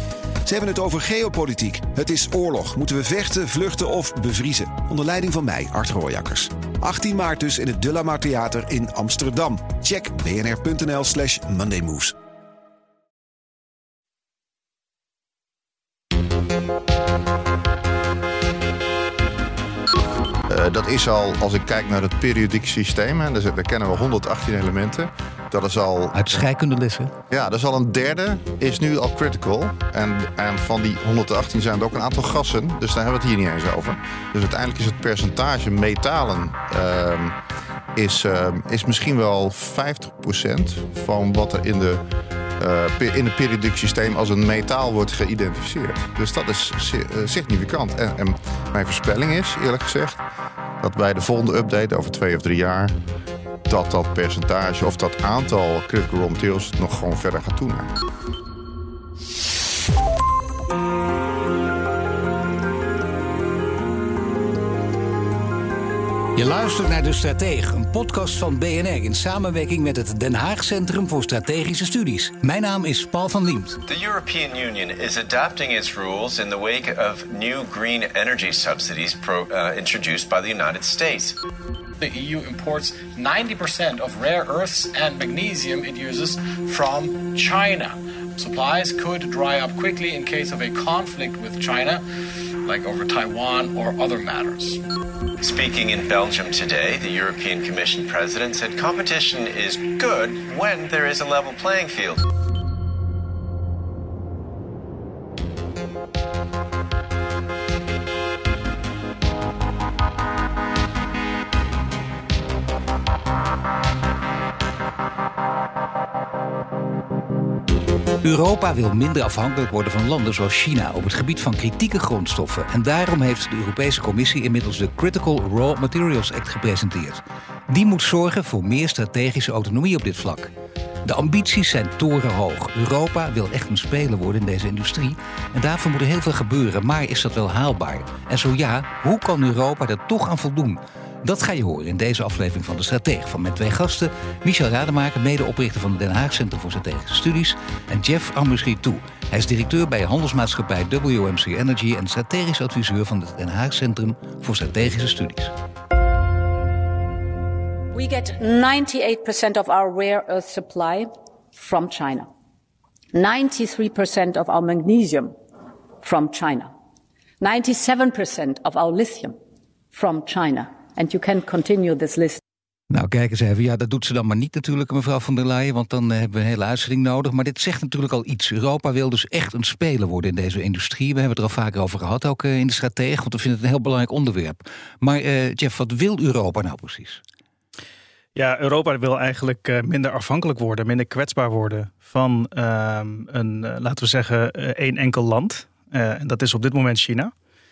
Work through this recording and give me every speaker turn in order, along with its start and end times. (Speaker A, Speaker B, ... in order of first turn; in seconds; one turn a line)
Speaker A: 0.4-12.1
Speaker B: 20.5-26.1
Speaker C: 26.1-27.1
Speaker B: 27.3-37.4
Speaker B: 37.9-42.0
Speaker B: 42.6-50.2
Speaker B: 50.8-53.0
Speaker B: 53.7-57.9
Speaker C: 66.3-73.8
Speaker D: 73.8-81.4
Speaker E: 82.0-92.0
Speaker E: 92.6-94.8
Speaker D: 95.4-102.2
Speaker C: 118.2-130.5
Speaker C: 131.0-155.5
Speaker F: 157.9-162.3
Speaker F: 163.1-165.3
Speaker F: 166.0-166.7
Speaker F: 167.4-169.4
Speaker F: 169.9-172.4
Speaker C: 172.9-187.2
Speaker G: 188.3-197.3